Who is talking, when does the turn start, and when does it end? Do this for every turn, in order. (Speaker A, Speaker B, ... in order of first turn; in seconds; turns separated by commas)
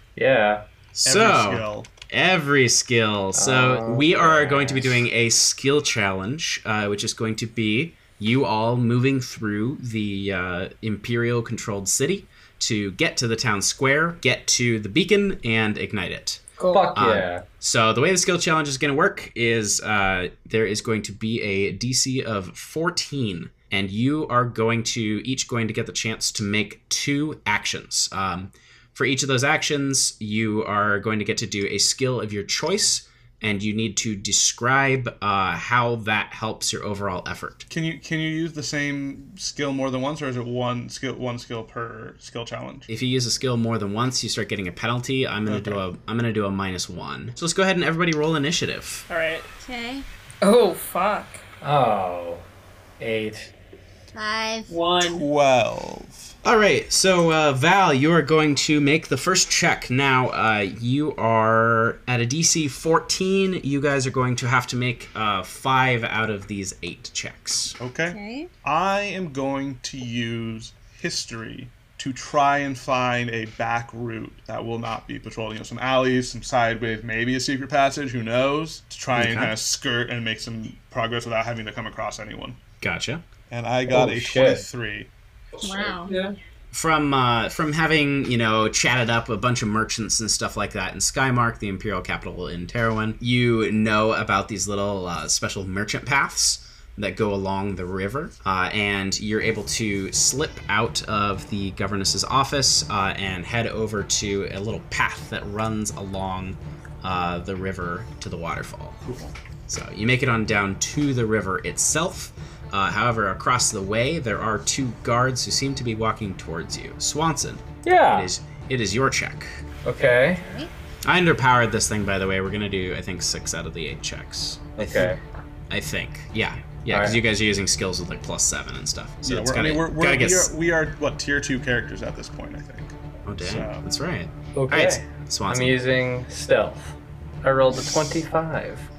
Speaker A: 0.1-0.6, Speaker B: 0.9-16.4, Speaker C: 1.0-1.9, Speaker A: 3.3-5.0, Speaker D: 16.6-16.9, Speaker A: 16.7-17.4, Speaker B: 16.9-37.7, Speaker C: 37.7-42.9, Speaker B: 42.9-49.1, Speaker C: 45.5-45.8, Speaker D: 49.1-49.5, Speaker E: 49.6-50.0, Speaker D: 50.4-51.4, Speaker A: 51.6-52.5, Speaker A: 53.0-53.5, Speaker E: 54.1-54.7, Speaker D: 54.7-55.3, Speaker C: 55.0-56.3, Speaker B: 56.4-67.8, Speaker C: 67.8-82.6, Speaker E: 68.1-68.5, Speaker B: 79.1-79.5, Speaker B: 82.8-83.2, Speaker C: 83.5-85.1, Speaker A: 83.9-84.7, Speaker E: 85.6-86.1, Speaker D: 85.7-86.3, Speaker B: 86.7-109.0, Speaker C: 109.0-109.3, Speaker B: 109.7-119.6, Speaker A: 117.8-118.3, Speaker A: 119.8-120.4, Speaker E: 120.3-120.7, Speaker B: 121.0-125.1, Speaker A: 124.8-125.2, Speaker B: 125.7-130.5, Speaker A: 126.9-127.2, Speaker C: 129.2-133.8, Speaker B: 133.2-135.8, Speaker A: 134.6-138.9